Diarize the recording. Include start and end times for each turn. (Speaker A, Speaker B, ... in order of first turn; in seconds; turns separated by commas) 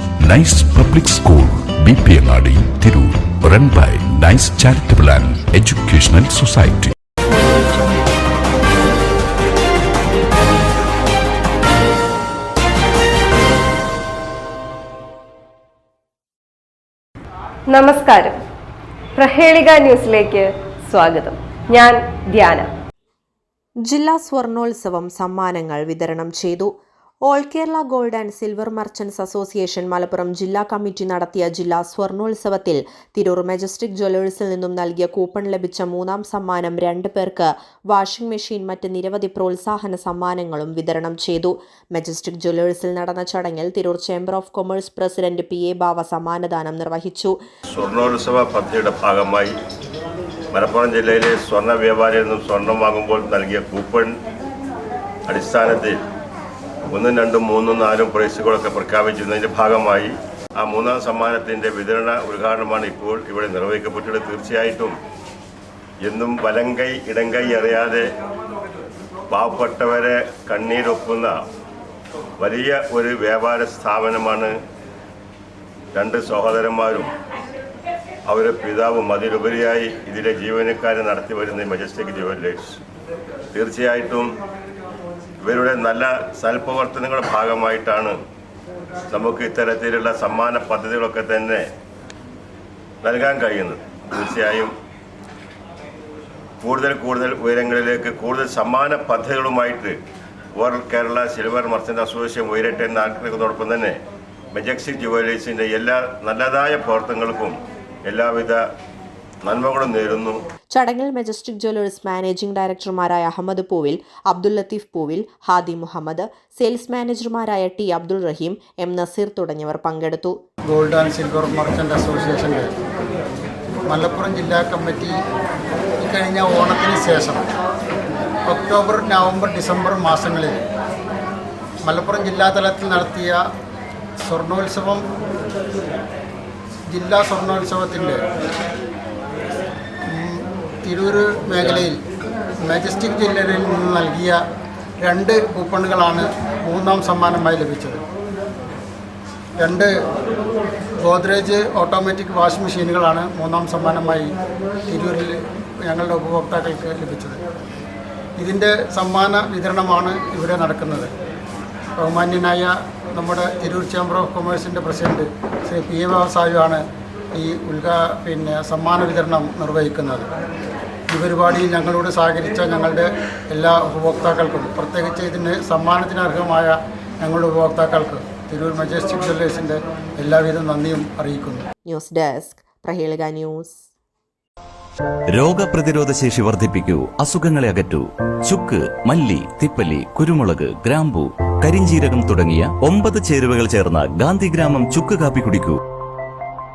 Speaker A: 0.2-6.9, Speaker B: 17.7-18.4, Speaker B: 19.2-22.7, Speaker C: 23.8-26.7, Speaker C: 27.2-47.4, Speaker D: 47.7-49.5, Speaker D: 50.5-54.1, Speaker D: 55.3-56.0, Speaker D: 56.9-64.9, Speaker D: 66.0-68.1, Speaker D: 69.3-71.3, Speaker D: 72.4-74.5, Speaker D: 75.9-77.1, Speaker D: 78.3-82.8, Speaker D: 83.5-84.3, Speaker D: 85.4-88.2, Speaker D: 89.1-91.7, Speaker D: 93.0-94.7, Speaker D: 96.6-100.0, Speaker D: 100.5-104.0, Speaker D: 104.5-108.6, Speaker D: 109.4-110.4, Speaker C: 110.7-120.3, Speaker E: 120.6-122.7, Speaker E: 123.8-125.2, Speaker E: 126.0-127.5, Speaker E: 128.4-130.6, Speaker E: 131.8-133.4, Speaker E: 134.2-135.1, Speaker E: 136.8-138.2, Speaker E: 140.1-142.0, Speaker E: 142.6-144.4, Speaker E: 145.0-148.0, Speaker E: 149.6-149.9, Speaker E: 151.0-154.3, Speaker E: 154.9-157.4, Speaker E: 158.4-161.1, Speaker E: 161.9-170.3, Speaker E: 171.1-181.7, Speaker C: 181.8-183.8, Speaker F: 185.3-195.8